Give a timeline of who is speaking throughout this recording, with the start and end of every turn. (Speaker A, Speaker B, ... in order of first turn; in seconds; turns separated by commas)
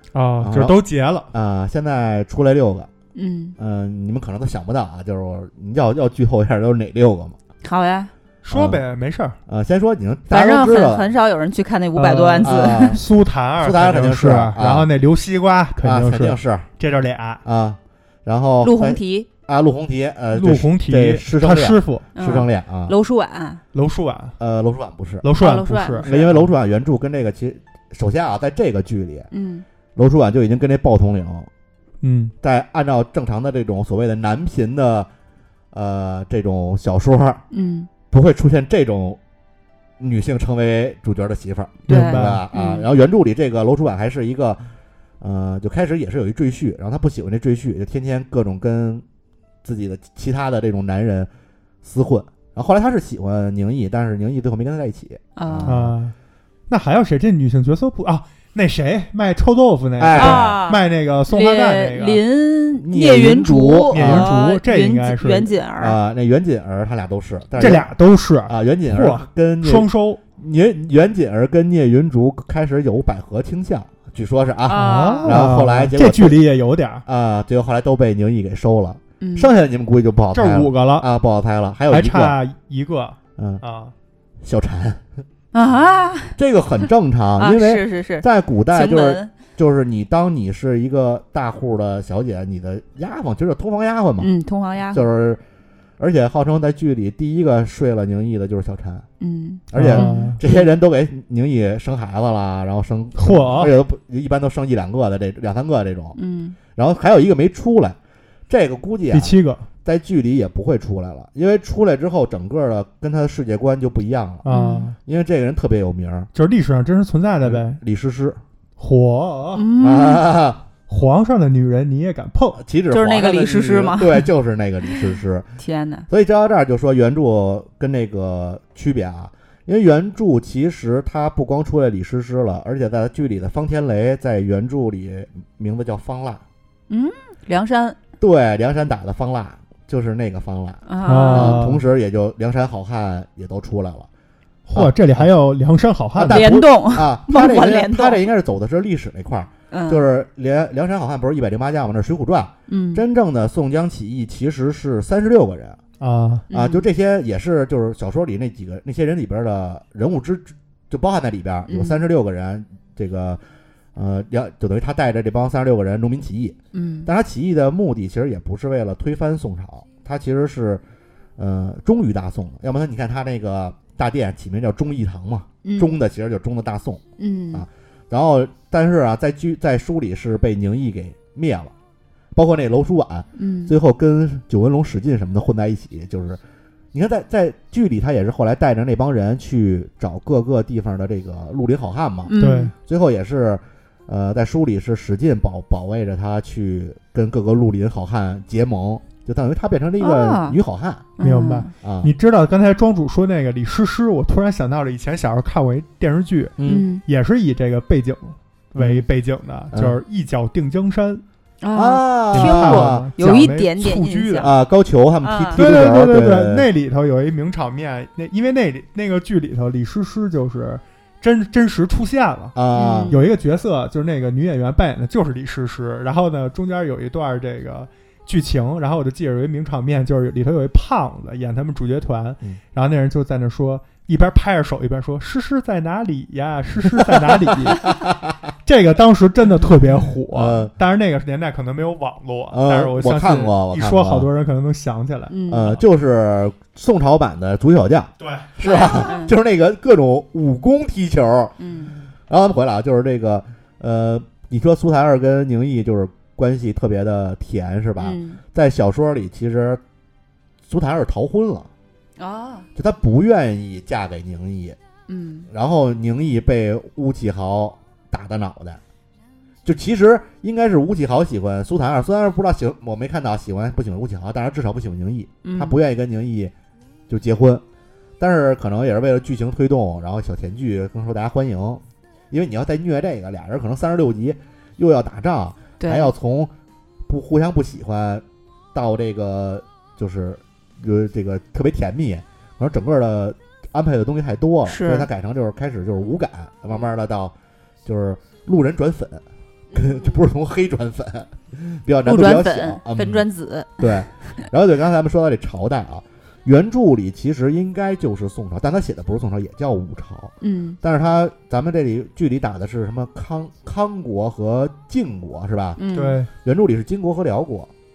Speaker A: 0.1-1.3, Speaker B: 0.4-0.8, Speaker B: 1.3-2.9, Speaker C: 3.1-3.5, Speaker B: 3.6-7.4, Speaker C: 7.6-8.1, Speaker A: 8.4-9.4, Speaker B: 8.5-8.8, Speaker B: 9.5-11.1, Speaker C: 10.3-13.0, Speaker A: 11.9-17.4, Speaker B: 12.4-13.0, Speaker B: 13.6-14.9, Speaker B: 15.8-16.7, Speaker B: 17.4-22.9, Speaker C: 18.6-19.3, Speaker A: 20.3-22.1, Speaker C: 22.1-23.6, Speaker A: 23.7-24.4, Speaker B: 24.4-25.3, Speaker A: 25.2-26.5, Speaker C: 25.4-26.1, Speaker B: 26.0-29.3, Speaker C: 29.3-29.6, Speaker B: 30.0-31.5, Speaker A: 32.0-32.3, Speaker B: 32.4-35.1, Speaker B: 35.7-37.4, Speaker C: 37.5-37.9, Speaker B: 38.1-39.2, Speaker B: 40.0-44.6, Speaker A: 41.9-42.4, Speaker C: 41.9-42.9, Speaker B: 45.2-49.0, Speaker B: 49.6-51.3, Speaker B: 51.8-56.0, Speaker C: 55.4-55.8, Speaker A: 55.7-56.1, Speaker A: 56.7-62.2, Speaker B: 60.0-60.6, Speaker C: 60.2-66.0, Speaker B: 62.8-64.3, Speaker A: 63.9-65.5, Speaker B: 65.8-67.9, Speaker A: 67.6-70.2, Speaker B: 68.5-76.4, Speaker C: 74.7-75.4, Speaker A: 74.7-77.0, Speaker B: 77.1-82.4, Speaker C: 79.2-79.5, Speaker A: 80.3-81.1, Speaker A: 81.9-83.9, Speaker B: 83.4-83.6, Speaker B: 84.4-85.0, Speaker C: 85.5-86.4, Speaker B: 86.4-94.3, Speaker C: 87.4-89.3, Speaker C: 94.2-95.1, Speaker B: 94.9-95.4, Speaker B: 96.0-99.1, Speaker C: 99.2-100.7, Speaker B: 99.7-106.2, Speaker A: 99.7-100.4, Speaker A: 103.2-103.7, Speaker C: 106.2-106.6, Speaker B: 106.8-108.0, Speaker B: 108.5-109.3, Speaker A: 109.1-109.7, Speaker B: 109.8-114.5, Speaker A: 114.5-115.0, Speaker C: 114.5-114.9, Speaker B: 115.0-116.3, Speaker A: 116.3-117.8, Speaker B: 117.4-118.4, Speaker A: 118.8-119.6, Speaker C: 119.5-120.3, Speaker B: 119.8-120.7, Speaker A: 120.9-122.6, Speaker B: 122.6-125.5, Speaker C: 122.9-124.3, Speaker C: 125.6-126.1, Speaker B: 126.1-136.4, Speaker C: 136.9-138.0, Speaker B: 138.2-144.1, Speaker C: 140.9-141.6, Speaker A: 141.1-141.8, Speaker A: 144.7-146.5, Speaker B: 144.7-145.3, Speaker B: 146.2-155.8, Speaker C: 146.3-148.2, Speaker C: 149.7-150.1, Speaker C: 152.7-153.0, Speaker A: 156.0-156.4, Speaker C: 156.5-156.9, Speaker B: 156.5-163.4, Speaker C: 161.7-162.0, Speaker B: 163.9-170.8, Speaker C: 166.7-167.1, Speaker B: 171.4-181.7, Speaker C: 175.6-175.9, Speaker C: 177.2-177.7, Speaker B: 182.3-186.4, Speaker C: 183.4-183.7, Speaker B: 186.9-192.3, Speaker C: 192.3-192.7, Speaker A: 192.4-192.7, Speaker B: 192.8-201.1, Speaker C: 200.0-200.6, Speaker C: 201.2-201.7, Speaker A: 201.2-211.2, Speaker B: 201.8-202.1, Speaker B: 206.6-206.9, Speaker C: 206.7-207.0, Speaker B: 208.8-209.1, Speaker B: 209.7-210.0, Speaker C: 211.6-214.5, Speaker B: 211.8-213.1, Speaker A: 212.3-214.5, Speaker B: 214.4-216.7, Speaker C: 215.2-215.7, Speaker A: 215.6-222.6, Speaker B: 222.6-223.2, Speaker C: 222.7-223.2, Speaker A: 223.1-238.0, Speaker B: 237.0-238.3, Speaker A: 238.7-245.4, Speaker B: 240.3-240.7, Speaker B: 242.5-244.3, Speaker C: 245.3-245.8, Speaker B: 245.5-251.6, Speaker A: 248.2-248.5, Speaker C: 248.6-249.3, Speaker C: 251.6-251.9, Speaker B: 252.3-259.8, Speaker C: 258.0-258.4, Speaker B: 260.7-261.7, Speaker C: 262.2-262.7, Speaker B: 262.8-264.8, Speaker C: 265.1-265.5, Speaker B: 265.5-268.8, Speaker B: 269.6-276.5, Speaker C: 275.4-275.8, Speaker B: 277.1-277.6, Speaker B: 278.2-286.5, Speaker C: 285.8-286.1, Speaker B: 287.1-297.3, Speaker C: 294.7-295.1, Speaker B: 297.9-303.2, Speaker C: 299.7-300.2, Speaker C: 302.1-304.4, Speaker B: 303.8-315.8, Speaker C: 310.4-310.8, Speaker C: 315.8-316.2, Speaker A: 315.9-316.3, Speaker B: 316.4-317.7